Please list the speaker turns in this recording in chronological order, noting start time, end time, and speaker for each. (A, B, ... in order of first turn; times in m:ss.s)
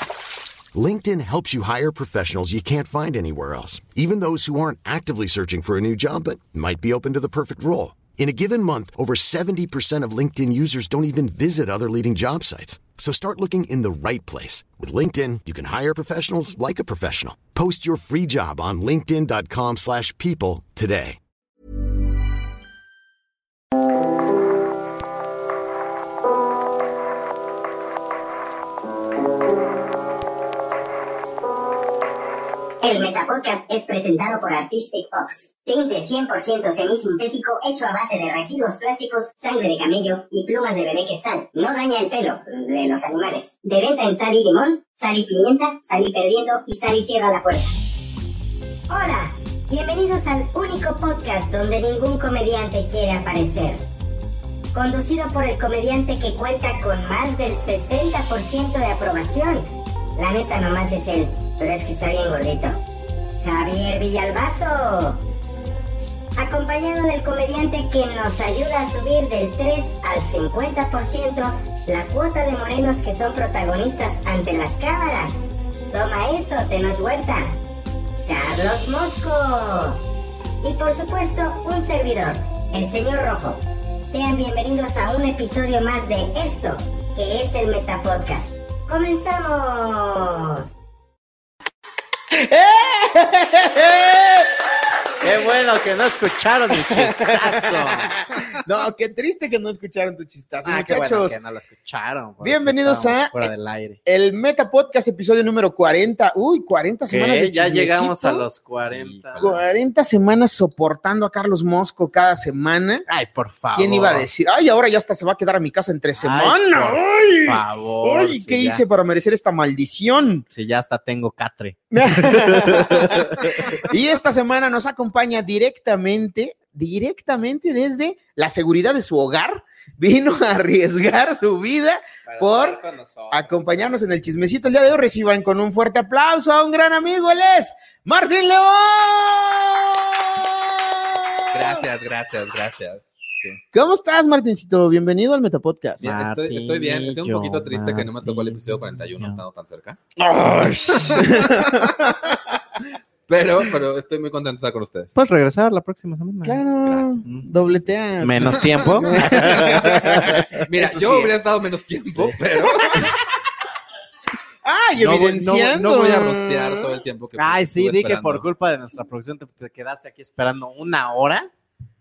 0:00.7-0:21.2 A
0:32.8-0:47.7 B
0:48.9-0:53.8 B
0:54.7-1:02.8 B
1:03.4-1:05.2 B
1:06.4-1:15.4 B
1:15.9-1:17.6 B
1:18.3-1:20.0 B
1:20.6-1:30.7 B
1:32.3-1:34.6 C
1:35.2-1:38.1 D
1:36.7-1:41.4 C
1:40.6-1:44.0 D
1:42.4-1:43.5 C
1:44.1-1:48.5 C
1:47.1-1:49.5 D
1:48.9-1:49.6 E
1:49.4-1:53.0 C
1:53.1-1:54.3 D
1:53.7-2:00.5 C
1:56.2-1:58.8 D
2:00.5-2:03.7 D
2:01.9-2:21.8 C
2:21.5-2:23.6 E
2:23.7-2:26.0 C
2:26.0-2:30.0 E
2:26.0-2:29.4 D
2:30.2-2:32.4 C
2:31.2-2:31.7 E
2:33.3-2:35.2 E
2:35.2-2:36.6 D
2:36.4-2:41.2 C
2:36.8-2:37.9 E
2:38.2-2:41.3 D
2:40.6-2:43.2 E
2:42.0-2:42.4 D
2:44.6-2:47.0 C
2:45.0-2:48.5 E
2:47.4-2:51.5 D